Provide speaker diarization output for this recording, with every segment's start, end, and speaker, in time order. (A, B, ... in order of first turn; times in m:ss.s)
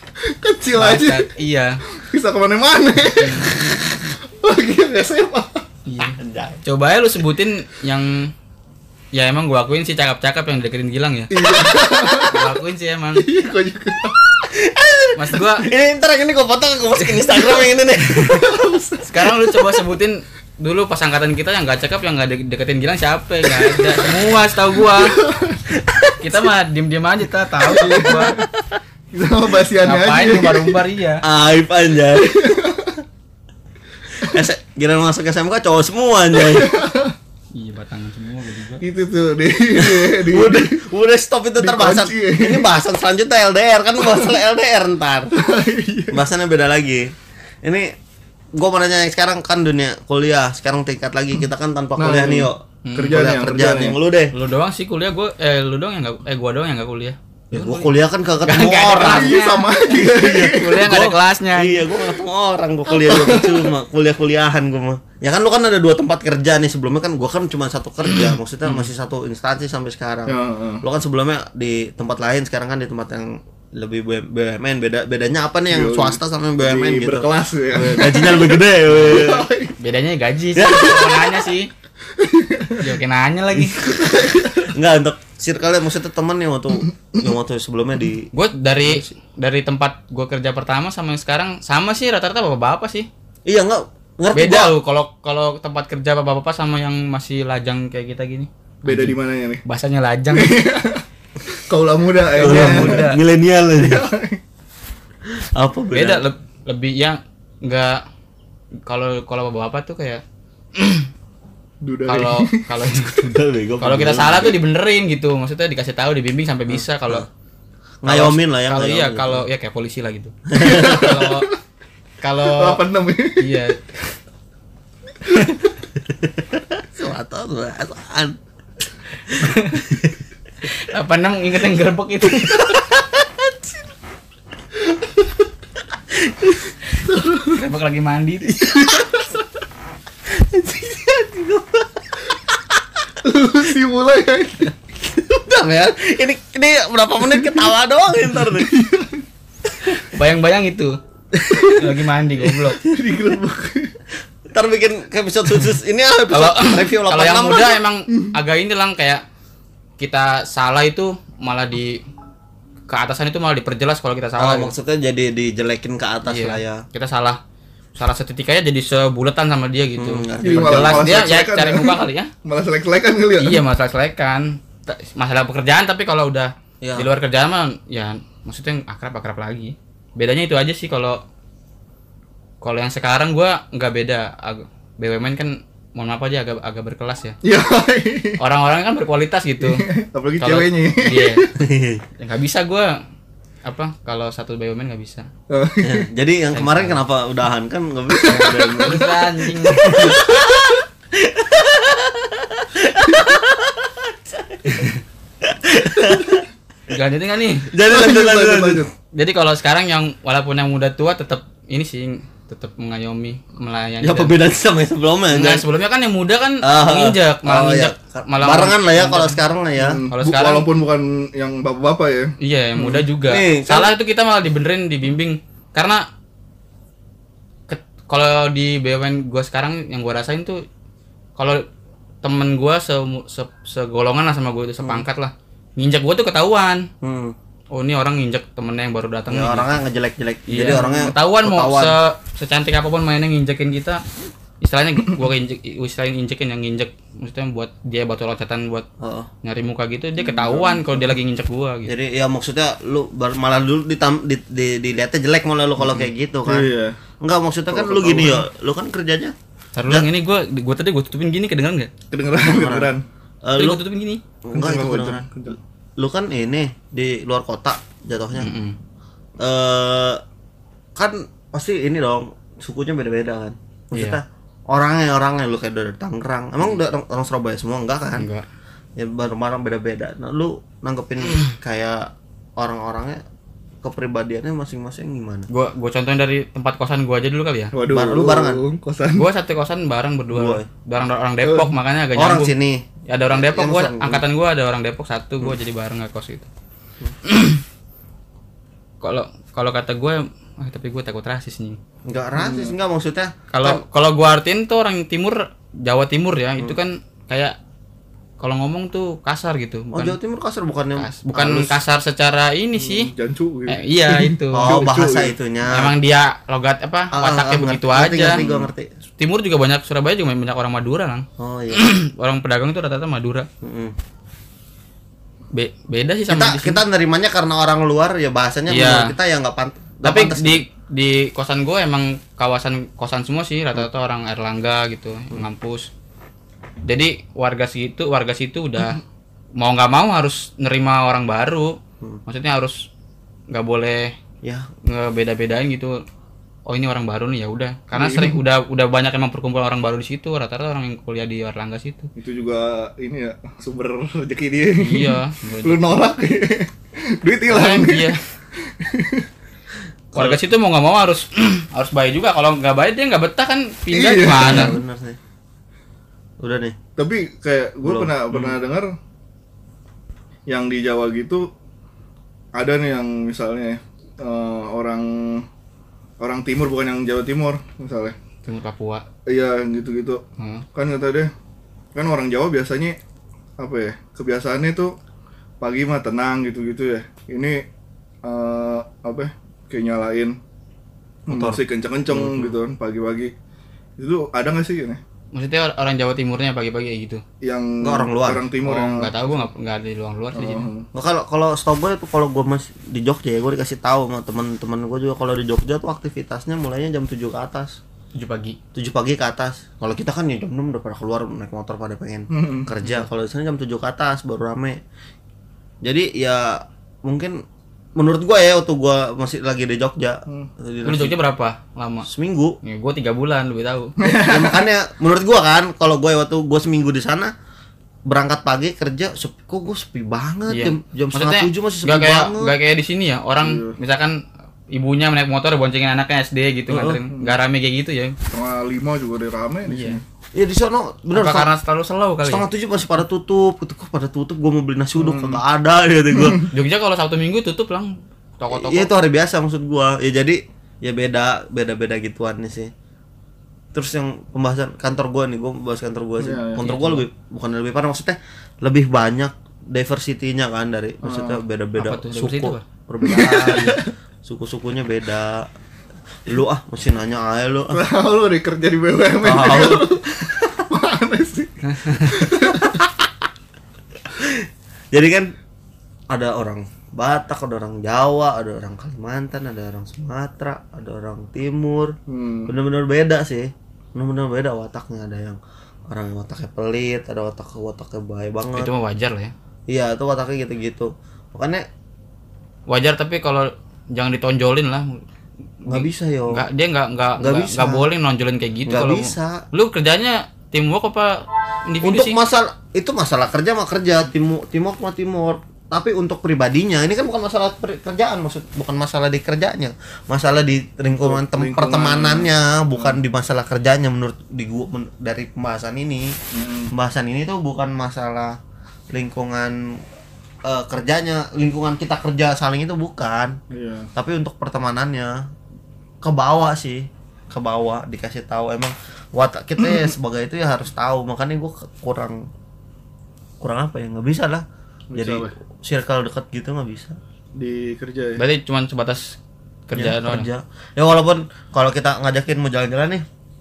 0:00.2-0:01.3 A
0:00.8-0:01.8 B
0:02.0-0:05.6 A
0:03.2-0:03.5 B
0:05.9-0:08.3 B
0:06.0-0:06.6 C
0:09.1-0:11.6 B
0:11.3-0:12.4 A
0:11.4-0:12.3 C
0:12.2-0:13.3 B
0:13.2-0:14.2 A
0:14.5-0:18.6 C
0:15.2-0:15.7 B
0:18.2-0:19.4 A
0:19.0-0:25.2 B
0:24.9-0:25.6 A
0:25.7-0:26.3 C
0:26.2-0:28.4 B
0:27.6-0:28.5 A
0:27.8-0:28.8 C
0:29.1-0:30.8 A
0:29.8-0:31.2 B
0:31.2-0:32.8 C
0:32.2-0:33.0 A
0:34.2-0:36.8 C
0:36.4-0:37.2 A
0:37.5-0:38.8 B
0:38.8-0:40.8 A
0:39.8-0:45.4 C
0:41.6-0:42.7 A
0:45.3-0:46.2 A
0:46.1-0:47.9 C
0:48.5-0:54.3 C
0:52.0-0:54.0 A
0:52.8-0:53.2 B
0:54.3-0:57.9 B
0:57.5-0:59.4 C
0:58.4-1:01.8 B
0:59.0-1:00.9 A
1:00.0-1:19.5 C
1:02.9-1:03.7 A
1:08.1-1:08.8 B
1:10.3-1:10.8 A
1:15.7-1:19.8 A
1:18.9-1:19.2 B
1:19.8-1:21.7 B
1:20.5-1:21.3 C
1:22.2-1:22.9 A
1:22.8-1:24.2 B
1:23.6-1:28.3 C
1:23.8-1:24.7 A
1:28.3-1:33.1 B
1:28.8-1:29.1 C
1:33.5-1:34.7 C
1:34.3-1:40.6 B
1:38.9-1:39.6 A
1:40.3-1:43.1 A
1:42.4-1:43.2 B
1:42.4-1:44.1 C
1:43.8-1:44.4 A
1:45.3-1:46.2 C
1:45.9-1:48.0 B
1:48.9-1:50.2 B
1:50.8-1:51.1 B
1:51.8-1:52.6 A
1:52.1-1:57.3 B
1:53.1-1:54.6 C
1:56.7-1:57.2 C
1:58.0-1:59.4 C
1:58.0-2:01.5 B
2:00.5-2:01.2 C
2:00.6-2:01.4 A
2:02.2-2:02.8 B
2:02.5-2:03.5 A
2:03.4-2:03.8 B
2:06.0-2:08.4 C
2:09.3-2:09.9 B
2:09.3-2:10.1 C
2:10.6-2:12.8 B
2:12.3-2:13.8 C
2:16.1-2:16.7 C
2:17.1-2:17.6 A
2:17.3-2:19.0 B
2:18.8-2:19.0 C
2:20.3-2:22.8 C
2:23.2-2:24.7 A
2:25.0-2:28.7 C
2:28.5-2:29.2 A
2:30.0-2:31.0 B
2:31.4-2:31.8 C
2:31.6-2:32.8 B
2:32.8-2:33.9 A
2:34.5-2:37.8 C
2:36.3-2:39.2 B
2:40.0-2:42.0 B
2:42.9-2:44.7 B
2:44.4-2:46.8 C
2:46.2-2:47.4 B
2:48.0-2:52.3 B
2:50.0-2:51.3 C
2:50.4-2:53.6 A
2:53.4-3:01.2 B
2:56.8-2:57.1 C
3:02.6-3:07.4 B
3:07.4-3:08.4 A
3:08.4-3:09.8 B
3:09.6-3:11.5 A
3:10.4-3:11.4 B
3:11.6-3:12.0 C
3:12.2-3:13.0 B
3:13.7-3:15.3 B
3:15.5-3:16.0 A
3:15.8-3:19.1 C
3:16.5-3:17.0 B
3:18.1-3:19.2 A
3:18.3-3:20.3 B
3:19.7-3:24.9 C
3:24.7-3:25.0 B
3:25.4-3:26.5 C
3:26.9-3:27.7 B
3:27.7-3:28.9 C
3:27.9-3:28.9 A
3:29.1-3:34.3 B
3:34.0-3:35.6 C
3:35.3-3:39.4 B
3:36.6-3:40.0 C
3:39.8-3:42.3 A
3:40.1-3:40.7 B
3:42.4-3:46.0 B
3:42.8-3:43.9 C
3:47.7-3:50.6 B
3:51.4-3:51.6 B
3:52.2-3:56.9 B
3:57.0-3:57.4 C
3:57.7-3:59.7 B
3:59.3-4:02.0 C
4:00.5-4:04.0 B
4:04.6-4:08.9 B
4:09.0-4:09.3 C
4:09.4-4:11.9 B
4:10.4-4:10.9 A
4:11.9-4:19.4 C
4:16.5-4:17.0 A
4:17.7-4:18.4 A
4:19.8-4:21.9 B
4:22.1-4:23.0 A
4:22.3-4:22.9 C
4:23.4-4:23.8 C
4:23.6-4:24.2 B
4:24.4-4:25.3 C
4:24.5-4:25.6 A
4:26.0-4:28.5 C
4:28.4-4:28.8 B
4:29.4-4:30.2 C
4:31.0-4:38.3 C
4:33.9-4:34.2 B
4:38.2-4:38.4 B
4:39.0-4:43.2 C
4:43.8-4:45.5 C
4:45.5-4:47.8 B
4:47.7-4:49.3 A
4:47.9-4:48.6 C
4:49.2-4:52.5 B
4:50.3-4:50.7 C
4:51.4-4:51.7 A
4:52.2-4:54.2 C
4:53.1-4:56.5 B
4:57.2-4:57.6 B
4:59.0-5:01.8 B
5:02.1-5:03.8 C
5:02.4-5:02.8 A
5:03.5-5:07.6 B
5:08.4-5:10.2 B
5:09.9-5:11.8 C
5:11.0-5:13.1 B
5:12.8-5:15.3 A
5:13.7-5:14.8 B
5:14.6-5:15.9 C
5:15.7-5:18.4 B
5:17.1-5:18.9 C
5:18.3-5:18.7 A
5:19.2-5:23.5 B
5:21.4-5:21.9 C
5:23.6-5:24.0 C
5:25.5-5:26.8 B
5:26.3-5:30.6 C
5:28.7-5:29.2 B
5:30.0-5:35.9 B
5:36.8-5:39.0 B
5:39.6-5:42.9 B
5:43.5-5:44.2 B
5:44.4-5:44.7 C
5:44.8-5:46.0 B
5:46.7-5:52.1 B
5:47.9-5:48.4 A
5:52.2-5:59.3 A
5:54.8-5:55.8 B
5:57.5-5:58.2 B
6:00.1-6:00.4 C
6:00.2-6:04.8 B
6:03.9-6:04.7 A
6:04.3-6:05.2 C
6:06.4-6:06.8 C
6:07.0-6:08.9 A
6:07.8-6:08.6 C
6:10.5-6:11.5 A
6:12.6-6:15.5 A
6:16.2-6:18.2 A
6:18.5-6:19.0 B
6:19.3-6:20.2 A
6:20.4-6:20.7 B
6:20.8-6:21.3 A
6:22.0-6:23.0 A
6:23.6-6:25.0 A
6:25.6-6:27.6 A
6:28.2-6:30.4 A
6:31.3-6:33.3 A
6:31.3-6:32.6 C
6:34.0-6:35.0 A
6:35.3-6:37.2 B
6:37.4-6:39.1 A
6:37.8-6:38.5 C
6:38.6-6:40.7 B
6:40.4-6:40.9 A
6:41.0-6:47.8 C
6:48.2-6:48.6 B
6:48.7-6:54.8 C
6:52.3-6:52.7 A
6:55.8-6:57.4 C
6:58.0-7:01.2 C
7:00.8-7:02.1 B
7:02.0-7:02.6 C
7:02.6-7:04.0 B
7:04.0-7:04.6 A
7:04.0-7:07.3 C
7:08.1-7:12.5 C
7:10.5-7:14.2 B
7:13.4-7:13.8 A
7:14.7-7:18.2 B
7:16.7-7:17.0 C
7:18.3-7:20.0 A
7:19.7-7:20.0 B
7:20.4-7:21.5 C
7:21.1-7:22.4 B
7:22.2-7:26.5 C
7:25.0-7:25.4 A
7:26.5-7:28.9 B
7:28.5-7:32.7 C
7:33.7-7:45.5 C
7:36.2-7:36.6 A
7:36.6-7:37.0 B
7:41.0-7:41.4 A
7:41.8-7:42.6 B
7:43.0-7:43.9 A
7:46.3-7:47.8 C
7:47.7-7:52.8 A
7:49.2-7:50.5 C
7:51.7-7:52.1 B
7:52.4-7:53.1 C
7:54.1-7:55.3 C
7:56.1-8:02.0 C
8:02.1-8:02.5 A
8:02.5-8:05.4 C
8:05.9-8:08.7 C
8:08.5-8:09.3 B
8:09.7-8:11.6 C
8:12.7-8:15.0 B
8:15.6-8:22.2 B
8:15.7-8:16.4 C
8:17.2-8:17.9 C
8:18.7-8:19.4 C
8:21.8-8:36.2 C
8:31.0-8:33.0 A
8:36.3-8:36.7 A
8:36.7-8:38.4 C
8:38.9-8:39.8 C
8:40.4-8:43.4 C
8:43.5-8:43.9 A
8:44.0-8:45.3 C
8:46.0-8:52.3 C
8:53.4-8:54.4 C
8:54.9-8:55.3 A
8:55.0-8:57.0 C
8:57.4-8:58.2 A
8:58.2-9:00.3 B
8:59.8-9:03.0 C